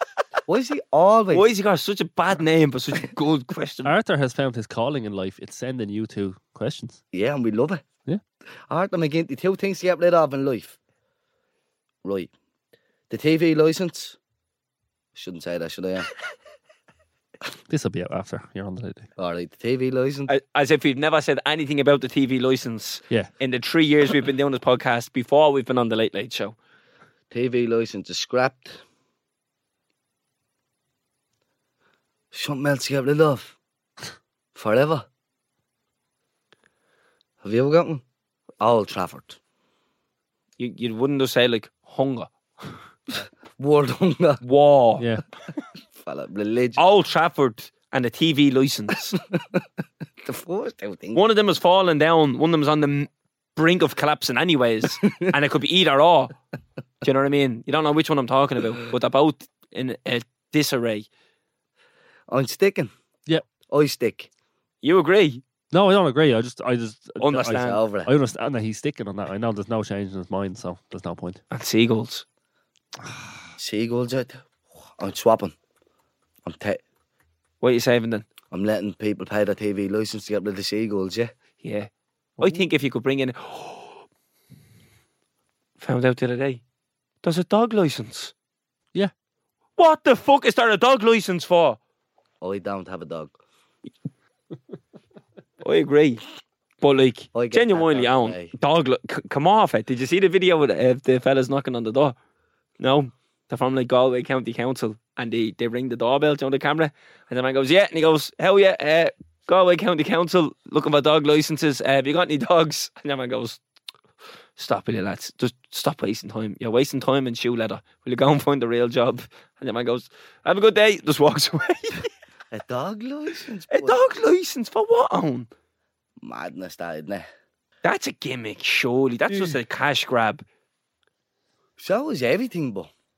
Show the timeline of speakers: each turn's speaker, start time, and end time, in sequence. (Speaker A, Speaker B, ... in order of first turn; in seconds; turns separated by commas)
Speaker A: 0.5-1.5, Speaker B: 1.3-3.9, Speaker C: 3.8-7.0, Speaker A: 7.1-7.8, Speaker A: 8.7-10.8, Speaker A: 12.0-12.3, Speaker A: 13.1-14.2, Speaker A: 15.1-16.1, Speaker C: 17.7-19.1, Speaker A: 19.2-20.3, Speaker B: 20.3-26.6, Speaker A: 27.3-28.8, Speaker A: 32.3-33.5, Speaker A: 34.5-35.0, Speaker A: 37.4-38.0, Speaker A: 38.6-39.4, Speaker B: 40.6-42.3, Speaker A: 43.6-44.4, Speaker B: 44.4-45.1, Speaker C: 45.0-45.2, Speaker A: 46.0-46.8, Speaker B: 46.8-49.2, Speaker A: 49.3-49.6, Speaker A: 50.2-51.2, Speaker B: 51.1-56.3, Speaker B: 57.0-61.1, Speaker A: 62.3-62.9, Speaker A: 63.7-64.3, Speaker B: 64.8-65.4, Speaker C: 65.7-71.4, Speaker B: 67.2-67.8, Speaker A: 67.5-68.1, Speaker B: 71.5-72.2, Speaker A: 73.6-74.4, Speaker A: 75.0-75.5, Speaker A: 76.4-76.8, Speaker B: 77.6-78.3, Speaker A: 78.5-81.3, Speaker B: 81.6-84.0, Speaker B: 85.8-86.6, Speaker B: 87.2-88.3, Speaker B: 89.8-91.8, Speaker A: 92.4-93.3, Speaker B: 95.6-96.2, Speaker B: 96.8-102.2, Speaker A: 97.3-98.5, Speaker B: 102.8-113.6, Speaker B: 114.6-122.1, Speaker A: 122.5-124.0, Speaker B: 123.7-125.5, Speaker A: 126.2-127.2, Speaker B: 127.8-130.4, Speaker A: 131.8-132.9